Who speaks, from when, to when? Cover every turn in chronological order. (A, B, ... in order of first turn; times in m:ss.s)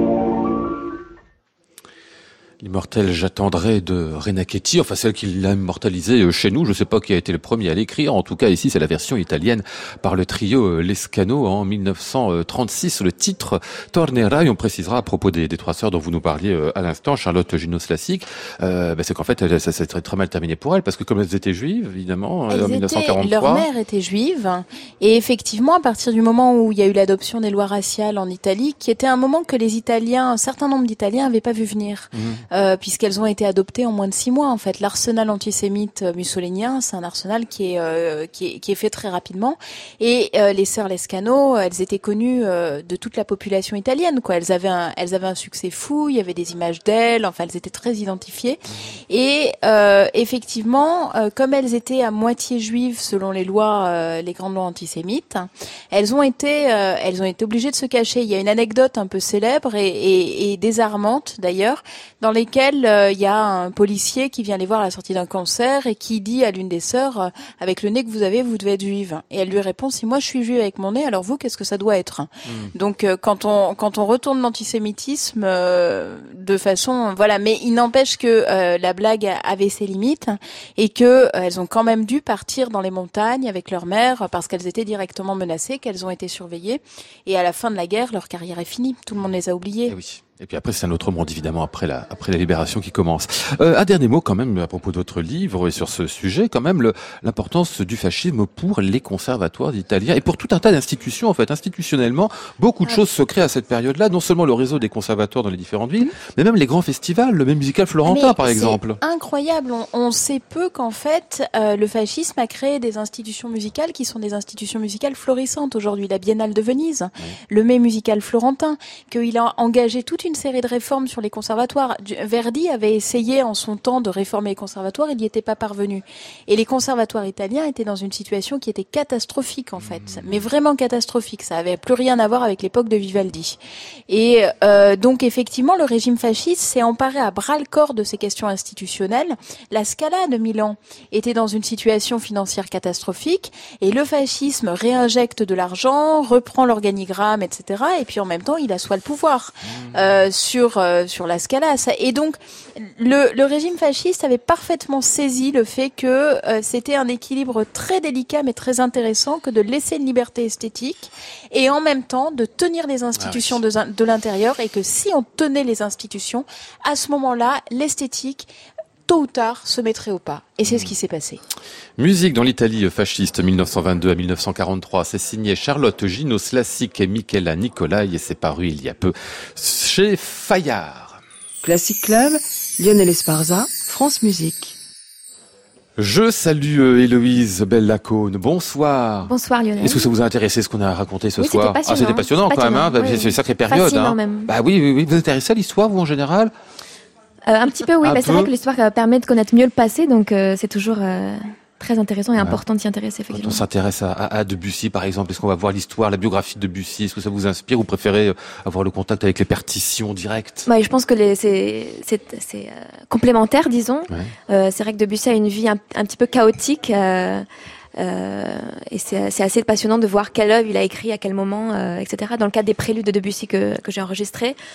0:02.6-0:23.7 A
0:22.5-1:29.9 B
0:32.1-0:32.4 A
1:12.4-1:12.7 A
1:29.9-1:49.0 A
1:48.0-2:48.5 B
2:10.0-2:10.3 A
2:43.2-2:43.6 A
2:49.0-2:51.4 B
2:52.0-3:01.2 A
3:01.6-3:04.8 C
3:06.0-3:16.5 A
3:09.3-3:10.0 D
3:11.4-3:14.5 D
3:17.5-3:23.6 D
3:18.0-3:18.5 A
3:23.3-3:30.7 A
3:30.7-3:44.6 D